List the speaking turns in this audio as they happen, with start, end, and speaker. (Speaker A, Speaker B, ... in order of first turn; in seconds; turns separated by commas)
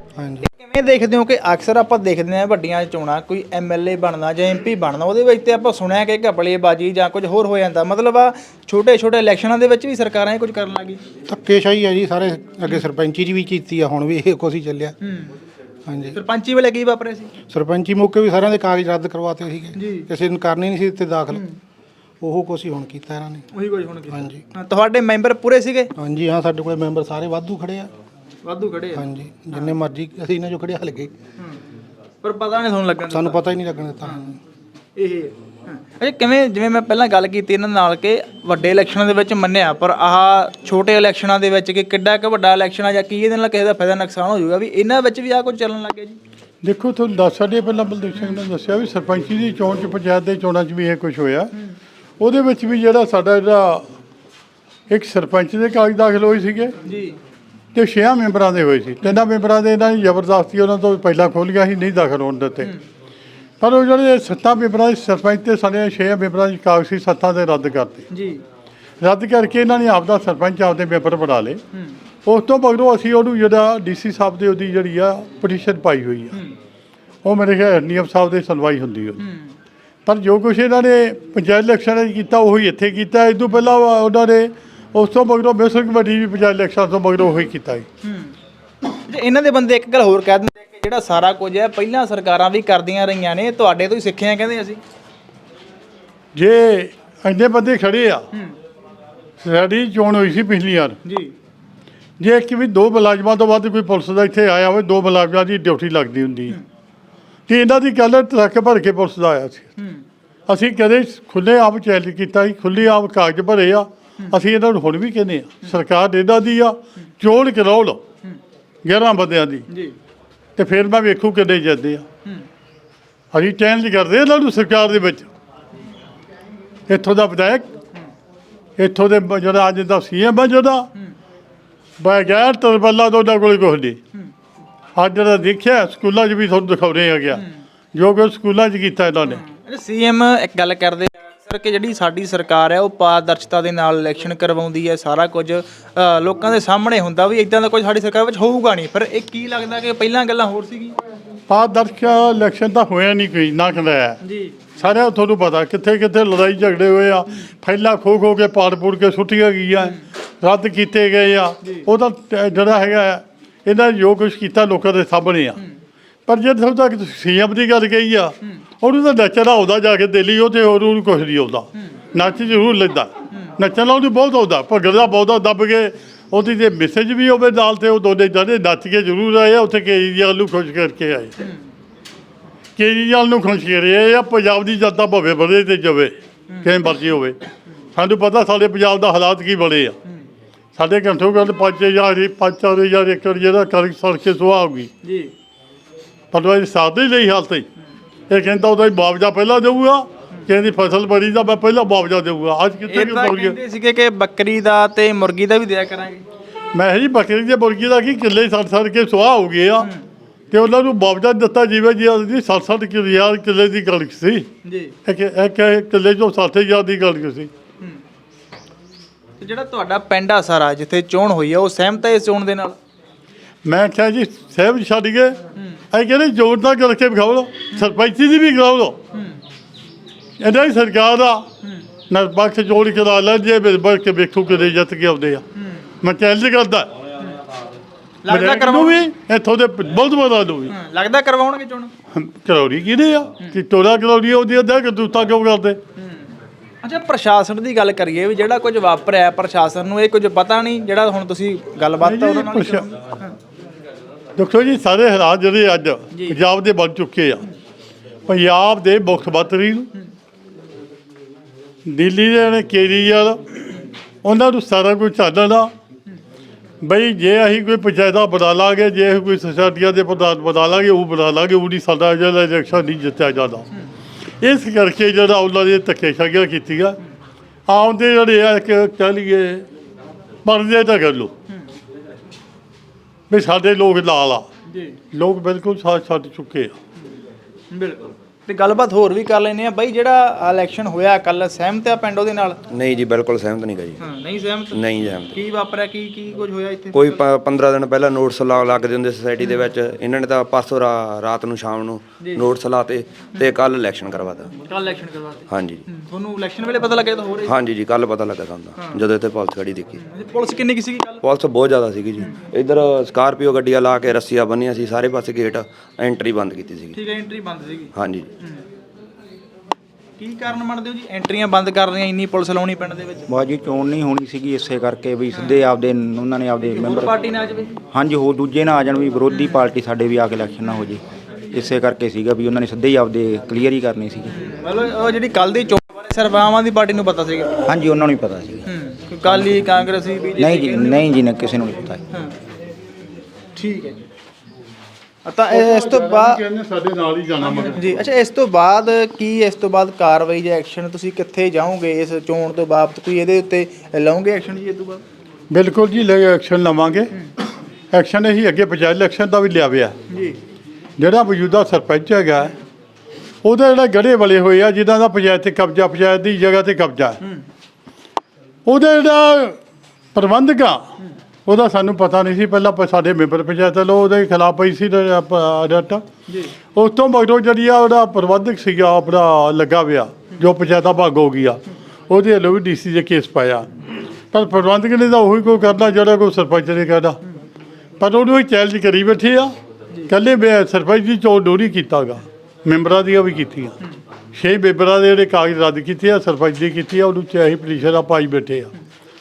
Speaker A: 0.1-0.5, Speaker B: 0.4-11.0, Speaker A: 11.3-14.9, Speaker B: 15.0-15.4, Speaker A: 15.9-16.2, Speaker B: 16.1-17.3, Speaker A: 17.5-21.4, Speaker B: 19.8-20.1, Speaker B: 21.3-21.6, Speaker A: 22.2-23.5, Speaker B: 23.5-25.9, Speaker A: 24.1-24.4, Speaker A: 26.0-27.9, Speaker B: 28.4-29.7, Speaker A: 28.9-31.1, Speaker B: 32.2-33.4, Speaker A: 33.1-34.4, Speaker B: 34.0-34.3, Speaker B: 35.0-46.2, Speaker C: 46.6-51.5, Speaker C: 52.2-53.9, Speaker C: 54.9-56.8, Speaker B: 56.9-57.2, Speaker C: 57.8-62.7, Speaker C: 63.6-68.1, Speaker B: 68.1-68.4, Speaker C: 69.0-71.6, Speaker C: 72.3-76.4, Speaker C: 77.2-79.2, Speaker B: 79.2-79.5, Speaker C: 80.1-87.9, Speaker B: 88.0-88.3, Speaker B: 89.1-94.8, Speaker C: 96.3-98.3, Speaker C: 99.4-101.0, Speaker B: 101.0-101.3, Speaker C: 102.2-106.6, Speaker C: 107.5-109.7, Speaker B: 109.8-110.0, Speaker C: 110.5-118.0, Speaker C: 118.8-119.7, Speaker C: 120.6-122.1, Speaker C: 123.3-125.3, Speaker C: 126.9-127.7, Speaker C: 128.8-130.9, Speaker C: 132.0-134.0, Speaker C: 135.0-139.4, Speaker B: 139.3-151.0, Speaker C: 151.5-154.2, Speaker B: 154.2-154.6, Speaker C: 154.8-165.6, Speaker C: 166.3-181.4, Speaker C: 182.8-187.4, Speaker C: 188.0-190.0, Speaker C: 190.8-194.9, Speaker B: 195.0-195.3, Speaker C: 196.3-197.7, Speaker C: 198.3-203.6, Speaker B: 202.9-206.2, Speaker C: 206.7-209.9, Speaker C: 210.5-214.5, Speaker B: 214.7-214.9, Speaker C: 215.1-217.5, Speaker B: 219.4-222.8, Speaker C: 223.7-225.4, Speaker C: 225.9-229.0, Speaker B: 229.1-229.4, Speaker C: 230.4-231.5, Speaker C: 232.1-235.4, Speaker B: 235.6-235.9, Speaker C: 236.0-237.0, Speaker B: 238.3-239.0, Speaker C: 238.3-240.8, Speaker B: 240.7-241.9, Speaker C: 242.1-245.8, Speaker B: 246.0-246.3, Speaker B: 246.8-253.3, Speaker C: 252.0-252.9, Speaker C: 254.4-257.5, Speaker C: 258.3-259.9, Speaker C: 261.9-265.7, Speaker C: 266.8-273.7, Speaker C: 274.4-277.0, Speaker C: 277.7-279.7, Speaker C: 280.4-281.3, Speaker C: 283.3-284.5, Speaker B: 284.7-285.0, Speaker C: 285.1-286.8, Speaker B: 287.7-292.6, Speaker D: 292.7-294.0, Speaker B: 294.0-297.2, Speaker D: 294.7-295.4, Speaker D: 296.9-304.5, Speaker B: 299.4-299.7, Speaker B: 302.2-302.5, Speaker B: 304.5-307.6, Speaker D: 305.5-305.9, Speaker D: 307.4-310.0, Speaker B: 308.8-309.1, Speaker B: 309.9-311.2, Speaker D: 311.2-317.0, Speaker B: 316.9-318.6, Speaker D: 317.9-318.3, Speaker B: 320.2-323.3, Speaker E: 323.3-327.1, Speaker B: 325.3-325.6, Speaker B: 326.6-327.8, Speaker E: 327.9-331.0, Speaker B: 329.3-329.6, Speaker E: 331.5-334.4, Speaker B: 334.3-337.6, Speaker E: 337.6-338.7, Speaker B: 338.7-341.1, Speaker E: 339.2-339.9, Speaker E: 340.4-342.0, Speaker B: 343.6-344.0, Speaker B: 345.3-346.4, Speaker C: 345.5-347.9, Speaker B: 347.4-355.0, Speaker C: 355.5-357.1, Speaker C: 357.9-360.0, Speaker B: 360.1-360.4, Speaker C: 361.0-362.6, Speaker C: 363.4-367.2, Speaker C: 368.7-369.6, Speaker C: 370.1-370.9, Speaker C: 371.5-376.1, Speaker C: 376.8-383.7, Speaker C: 384.3-387.2, Speaker C: 388.0-389.5, Speaker C: 390.1-393.8, Speaker C: 394.3-398.7